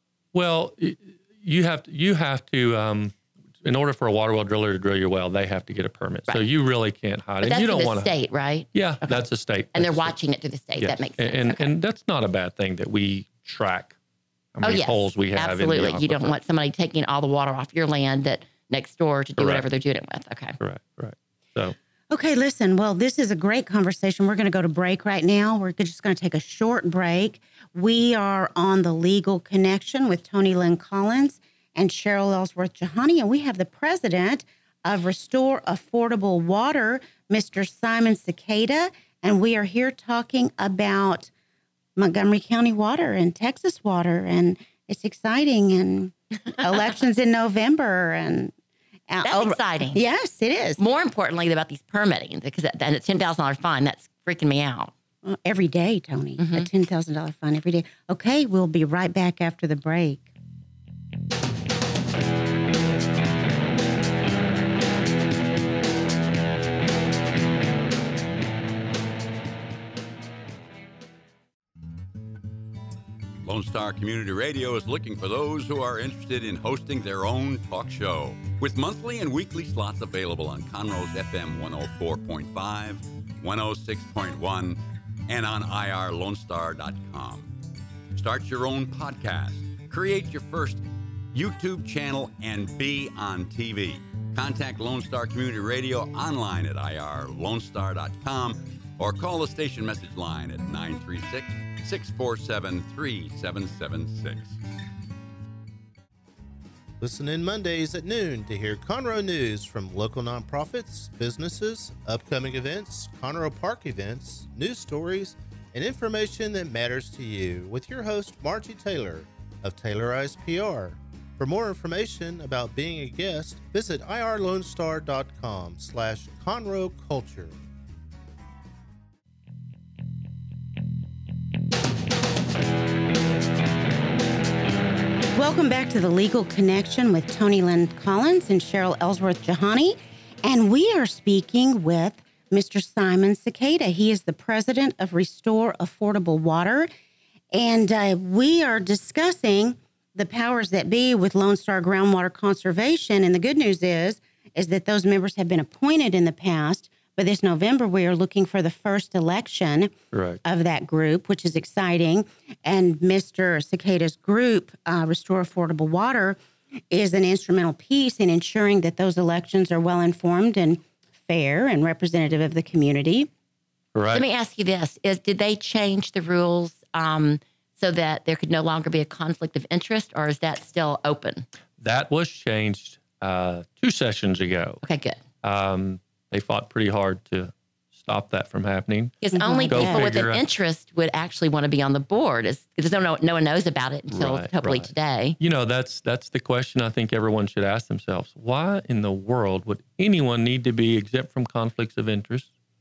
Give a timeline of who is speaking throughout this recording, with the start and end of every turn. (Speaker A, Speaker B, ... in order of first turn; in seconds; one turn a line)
Speaker A: 0.3-8.1
Speaker B: 7.4-9.2
Speaker A: 8.7-10.2
Speaker B: 9.7-11.7
Speaker A: 10.8-13.9
Speaker A: 14.5-16.4
Speaker B: 14.6-20.6
Speaker A: 19.4-19.7
Speaker A: 20.6-21.8
Speaker C: 22.1-41.3
Speaker C: 42.0-48.5
Speaker C: 49.1-50.8
Speaker B: 49.2-50.0
Speaker B: 50.8-54.9
Speaker C: 55.2-60.3
Speaker B: 56.4-56.7
Speaker D: 73.4-87.5
Speaker D: 88.1-104.6
Speaker E: 107.0-127.6
Speaker C: 135.3-146.9
Speaker C: 147.5-159.9
Speaker A: 160.1-160.4
Speaker C: 160.4-166.4
Speaker C: 166.9-173.3
Speaker A: 173.9-174.2
Speaker B: 174.2-181.4
Speaker A: 181.8-184.8
Speaker B: 184.8-185.2
Speaker A: 185.4-189.2
Speaker B: 189.2-195.4
Speaker C: 189.3-190.1
Speaker A: 189.7-190.4
Speaker A: 194.1-202.5